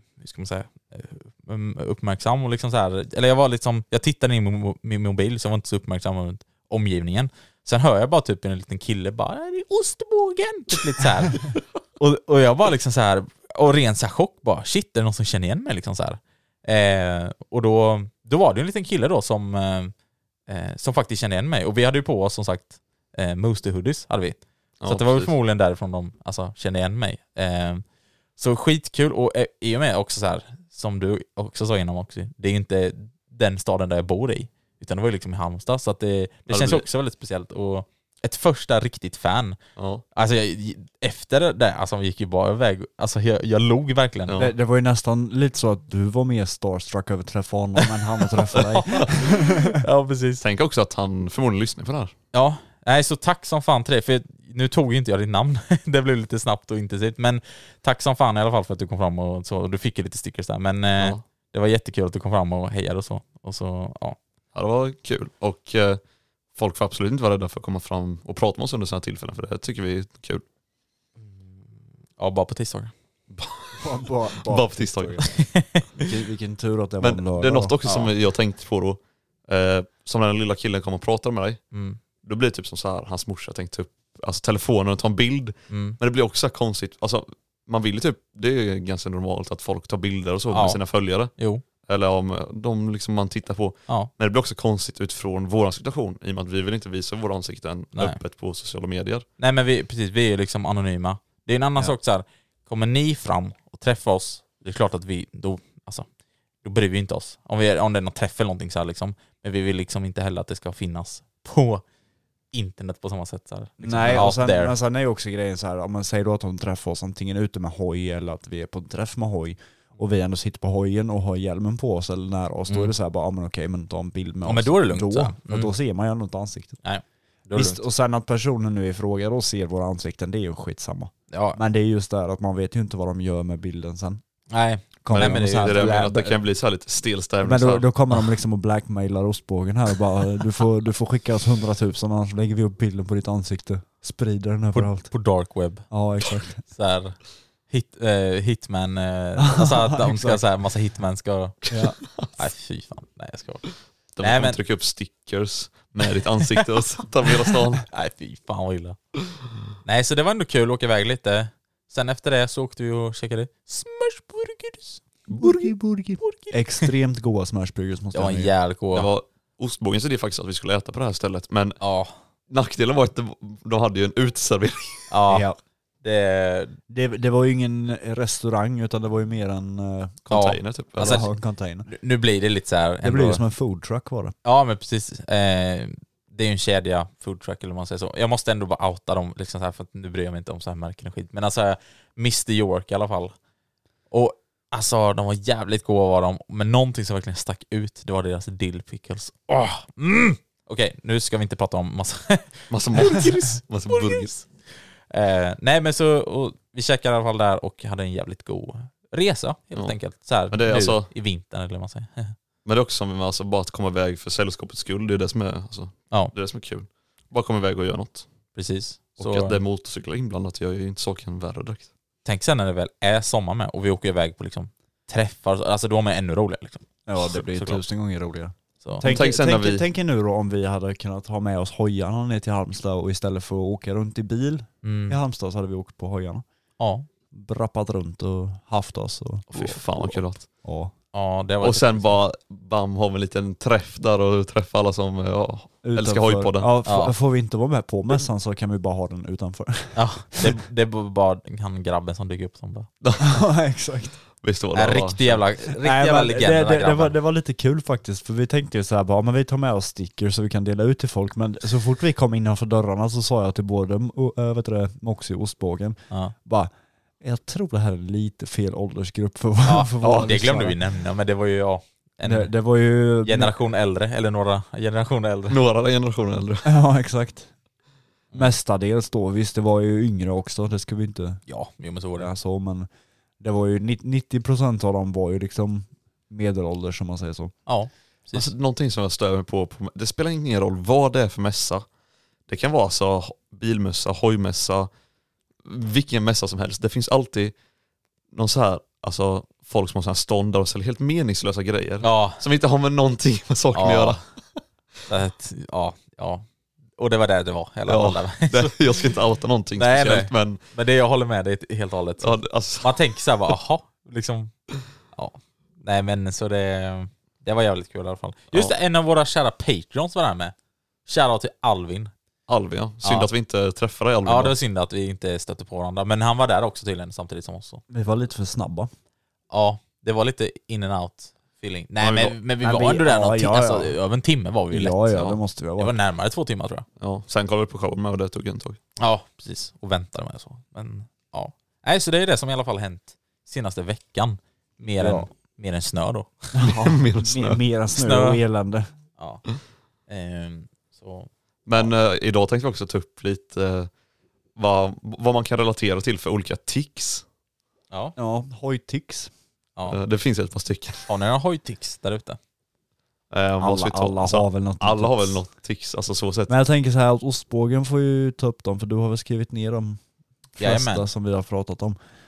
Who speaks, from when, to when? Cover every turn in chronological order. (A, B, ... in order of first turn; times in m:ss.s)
0:00.2-0:19.9 A
0:20.5-0:27.8 A
0:24.8-0:25.3 B
0:28.4-0:39.6 A
0:36.5-0:36.9 B
0:39.8-0:40.0 B
0:40.1-0:44.4 A
0:44.3-0:44.6 B
0:44.4-0:49.7 C
0:49.8-0:50.4 A
0:50.4-0:52.1 B
0:52.3-1:04.2 A
1:04.6-1:06.0 B
1:06.6-1:10.4 B
1:11.2-1:11.5 A
1:12.2-1:12.9 A
1:13.3-1:13.8 B
1:13.8-1:15.3 C
1:14.5-1:15.2 B
1:15.2-1:15.9 A
1:16.0-1:17.7 C
1:17.0-1:21.6 B
1:17.8-1:18.1 A
1:21.7-1:22.0 A
1:22.2-1:31.3 B
1:25.7-1:26.0 A
1:30.5-1:30.8 A
1:31.4-1:31.6 A
1:31.8-1:39.3 B
1:39.4-1:46.1 A
1:46.6-1:51.8 A
1:52.5-1:54.8 A
1:53.8-2:06.8 C
2:04.4-2:05.7 A
2:06.8-2:07.8 A
2:07.5-2:14.2 C
2:11.3-2:11.6 A
2:14.5-2:16.0 A
2:15.0-2:16.4 C
2:15.1-2:17.9 B
2:17.4-2:25.1 C
2:24.7-2:25.9 A
2:25.9-2:26.6 C
2:26.6-2:31.7 A
2:29.4-2:30.4 C
2:31.7-2:32.0 C
2:32.4-2:34.6 A
2:34.2-2:37.8 B
2:37.9-2:39.0 A
2:39.8-2:45.0 A
2:45.4-2:48.5 C
2:46.2-2:46.9 A
2:48.1-2:49.1 A
2:48.9-2:51.8 B
2:51.8-2:52.1 A
2:52.5-2:55.1 B
2:55.1-2:55.5 A
2:55.3-2:55.6 C
2:56.0-2:56.8 A
2:56.9-3:00.2 C
3:00.3-3:01.3 B
3:00.3-3:01.3 A
3:01.0-3:01.9 C
3:01.9-3:03.4 A
3:03.0-3:04.3 C
3:04.4-3:13.3 A
3:14.1-3:24.5 A
3:22.7-3:24.4 B
3:25.1-3:32.4 A
3:30.5-3:31.1 B
3:32.6-3:38.3 B
3:38.6-3:39.6 A
3:39.2-3:41.9 B
3:42.2-3:47.8 A
3:47.1-3:56.4 C
3:49.0-3:49.8 B
3:54.8-3:55.2 A
3:56.8-3:57.1 A
3:57.3-4:00.9 C
3:59.5-4:00.5 B
4:01.1-4:02.2 A
4:01.6-4:06.7 B
4:05.8-4:10.5 C
4:06.8-4:07.2 A
4:10.0-4:12.9 A
4:13.0-4:13.4 B
4:13.2-4:14.2 C
4:14.4-4:15.4 B
4:14.8-4:17.2 A
4:15.8-4:26.7 C
4:27.2-4:30.8 C
4:29.6-4:32.5 A
4:32.2-4:33.5 C
4:33.2-4:35.6 A
4:35.5-4:36.7 B
4:36.7-4:37.5 C
4:38.3-4:41.4 C
4:41.5-4:42.3 A
4:42.2-4:42.9 C
4:43.4-4:47.6 C
4:47.7-4:48.5 A
4:48.3-4:51.8 B
4:52.5-4:54.9 B
4:55.6-4:57.5 B
4:58.3-5:04.2 B
5:02.0-5:02.4 A
5:03.7-5:04.2 A
5:05.1-5:06.4 A
5:07.0-5:08.8 A
5:07.9-5:10.6 B
5:09.8-5:14.5 A
5:12.2-5:13.0 B
5:15.1-5:20.5 A
5:21.1-5:22.1 A
5:22.5-5:24.6 B
5:23.0-5:23.3 A
5:24.3-5:27.8 A
5:27.9-5:28.9 C
5:29.5-5:35.2 A
5:32.0-5:32.4 B
5:32.6-5:34.0 C
5:34.7-5:35.9 C
5:35.8-5:36.8 A
5:37.0-5:38.8 B
5:39.0-5:46.5 A
5:45.0-5:45.3 C
5:46.6-5:48.9 C
5:46.6-5:47.6 B
5:48.0-5:48.4 A
5:49.2-5:49.4 A
5:50.1-5:51.3 A
5:51.7-5:53.9 B
5:54.6-5:57.2 B
5:58.2-5:59.3 C
5:59.9-6:01.1 B
6:01.1-6:02.4 A
6:03.3-6:06.5 B
6:03.6-6:05.4 C
6:06.5-6:10.0 C
6:10.6-6:12.0 C
6:10.6-6:11.1 A